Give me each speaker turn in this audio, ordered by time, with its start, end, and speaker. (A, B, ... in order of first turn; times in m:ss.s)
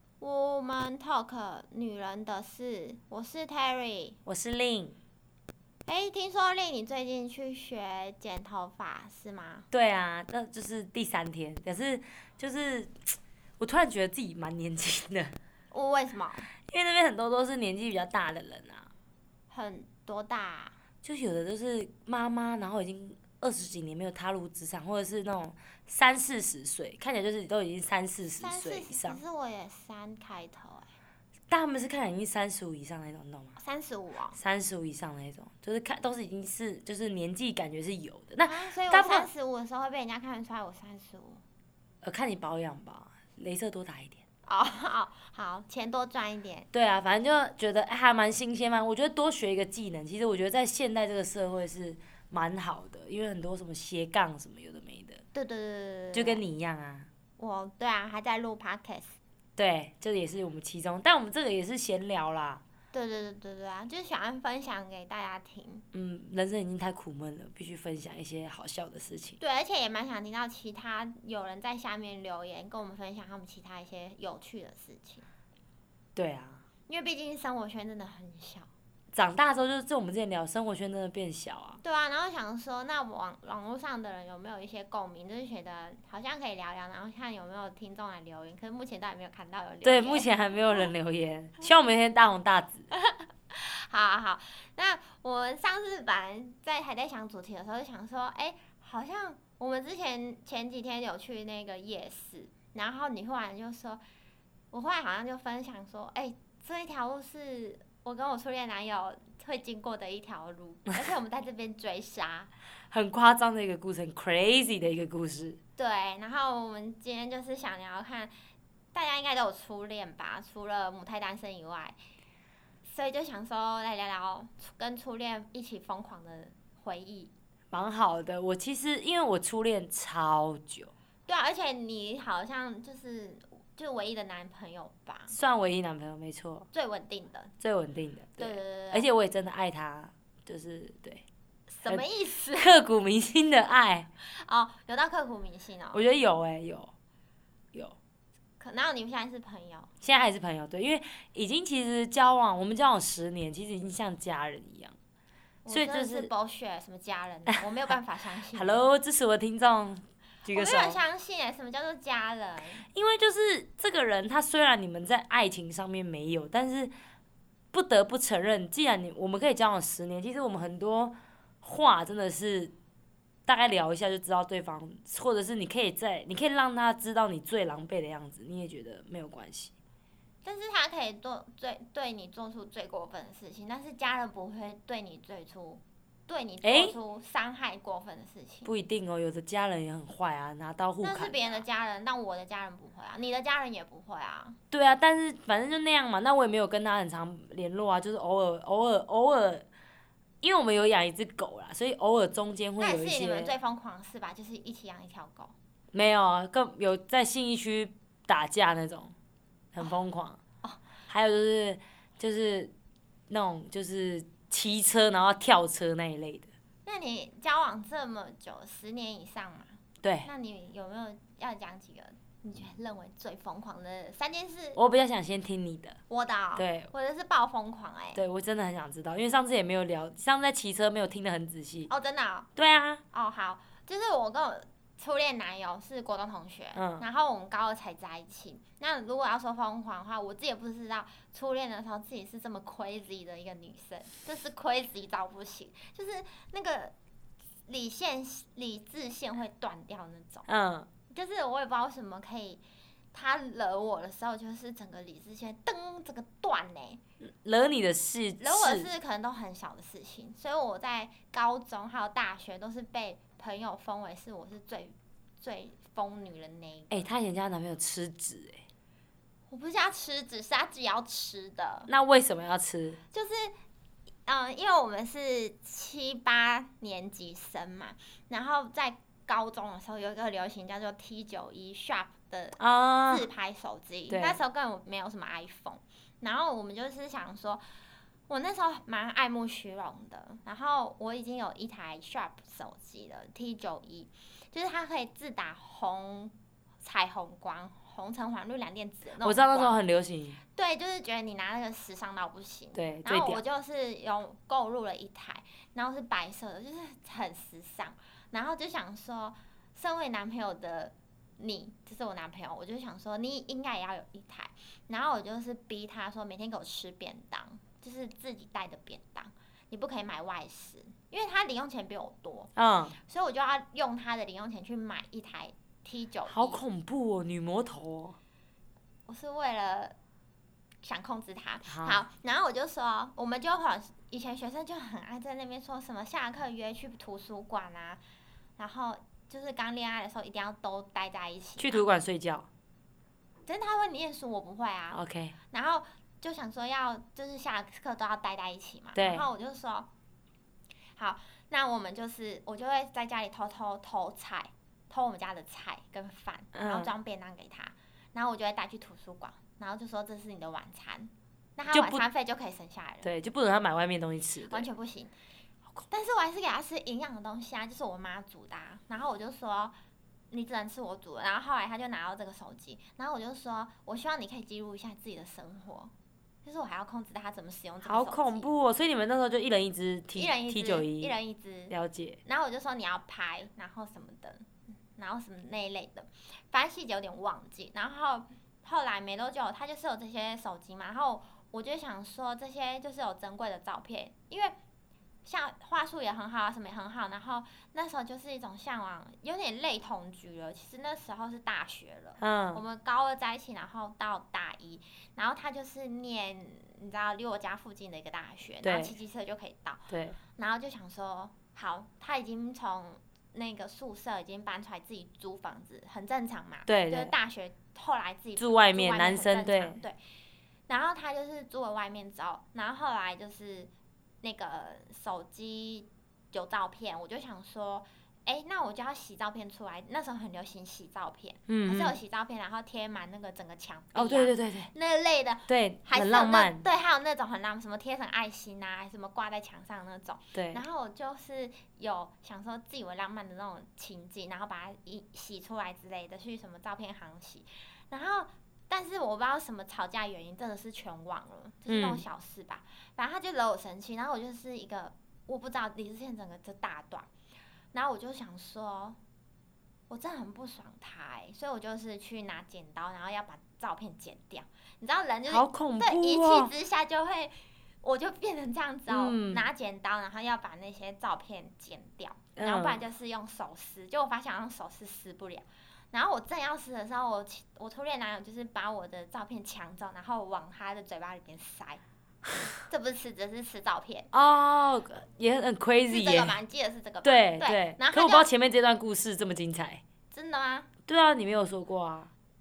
0:00.2-0:04.2 A
0:04.3-0:05.0 B
0:05.9-0:09.7 A
0:09.7-0:13.0 B
0:13.6-0:15.4 B
0:15.7-0:16.5 A
0:16.7-0:18.9 B
0:19.5-0:20.8 A
0:21.0-0:29.2 B
0:28.4-0:30.9 A
0:31.5-0:33.6 B
0:33.6-0:34.4 A
0:34.3-0:39.3 B
0:38.4-0:41.4 A
0:42.0-0:44.2 B
0:44.5-0:46.7 A
0:46.7-0:55.2 B
0:55.3-0:56.4 A
0:56.1-0:57.1 B
0:57.4-0:59.2 A
0:59.6-1:02.6 B
1:02.9-1:05.8 A
1:05.9-1:09.4 B
1:09.4-1:15.2 A
1:16.2-1:16.6 B
1:16.9-1:18.7 A
1:19.1-1:21.8 B
1:21.8-1:30.9 A
1:29.8-1:32.9 B
1:32.9-1:44.0 A
1:44.7-1:52.5 A
1:52.9-1:55.6 B
1:55.8-1:58.3 A
1:58.9-2:02.0 A
2:02.9-2:07.3 A
2:07.7-2:10.9 B
2:11.3-2:15.4 A
2:15.3-2:16.7 B
2:16.7-2:17.5 A
2:17.6-2:21.2 B
2:18.4-2:19.1 A
2:21.7-2:22.8 A
2:22.6-2:24.1 B
2:24.3-2:26.0 A
2:25.9-2:26.9 B
2:28.6-2:29.9 A
2:30.0-2:35.0 B
2:35.6-2:38.8 A
2:35.7-2:36.3 B
2:38.5-2:41.0 B
2:40.5-2:42.9 A
2:42.9-2:46.9 B
2:47.7-2:52.7 B
2:53.5-2:59.7 B
3:00.4-3:08.7 A
3:06.6-3:07.0 B
3:08.6-3:11.6 B
3:11.0-3:14.6 A
3:14.7-3:19.6 B
3:20.4-3:23.5 B
3:22.8-3:25.5 A
3:25.9-3:29.1 B
3:29.7-3:30.4 B
3:31.1-3:32.7 B
3:33.3-3:36.5 B
3:36.8-3:44.8 A
3:40.0-3:40.3 B
3:44.8-3:46.0 B
3:46.1-3:48.2 A
3:46.6-3:46.9 B
3:48.2-3:51.9 B
3:51.9-3:52.5 A
3:52.6-3:53.0 B
3:53.1-4:06.9 A
3:56.8-3:57.0 B
4:07.7-4:10.5 A
4:10.5-4:10.9 B
4:11.1-4:12.6 A
4:13.1-4:17.0 A
4:17.2-4:18.9 B
4:18.4-4:27.0 A
4:26.9-4:28.6 B
4:29.5-4:31.9 A
4:31.9-4:33.0 B
4:33.1-4:33.5 A
4:34.3-4:47.6 A
4:42.6-4:43.3 B
4:44.1-4:44.4 B
4:48.3-4:59.8 A
4:59.2-5:00.4 B
5:00.6-5:26.6 A
5:02.7-5:03.4 B
5:22.6-5:23.0 B
5:26.3-5:28.2 B
5:29.1-5:30.0 A
5:30.8-5:38.0 A
5:31.7-5:32.0 B
5:38.6-5:41.8 A
5:41.6-5:42.5 B
5:43.5-5:45.0 A
5:44.9-5:45.4 B
5:45.5-5:49.9 A
5:49.0-5:49.3 B
5:51.0-6:03.1 A
5:56.5-5:56.9 B
6:01.7-6:02.0 B
6:03.0-6:04.7 B
6:04.5-6:05.1 A
6:05.9-6:09.8 A
6:10.3-6:15.9 A
6:16.4-6:18.5 A
6:17.8-6:21.1 B
6:20.2-6:21.7 A
6:21.7-6:22.2 B
6:22.2-6:34.6 A
6:35.2-6:49.8 A
6:42.2-6:42.6 B
6:48.6-6:48.9 B
6:49.9-6:50.2 B
6:50.4-7:00.0 A
6:56.7-6:57.1 B
6:58.4-6:59.8 B
7:00.7-7:03.7 A
7:04.2-7:37.1 A
7:11.5-7:12.0 B
7:14.0-7:14.7 B
7:15.5-7:16.6 B
7:20.3-7:20.6 B
7:31.7-7:32.0 B
7:37.7-7:39.0 A
7:39.9-8:01.8 A
7:45.3-7:46.5 B
7:48.9-7:49.5 B
7:52.4-7:52.8 B
8:02.7-8:04.1 A
8:04.1-8:06.4 B
8:05.9-8:08.3 A
8:07.0-8:09.8 B
8:10.1-8:10.7 A
8:10.9-8:12.1 B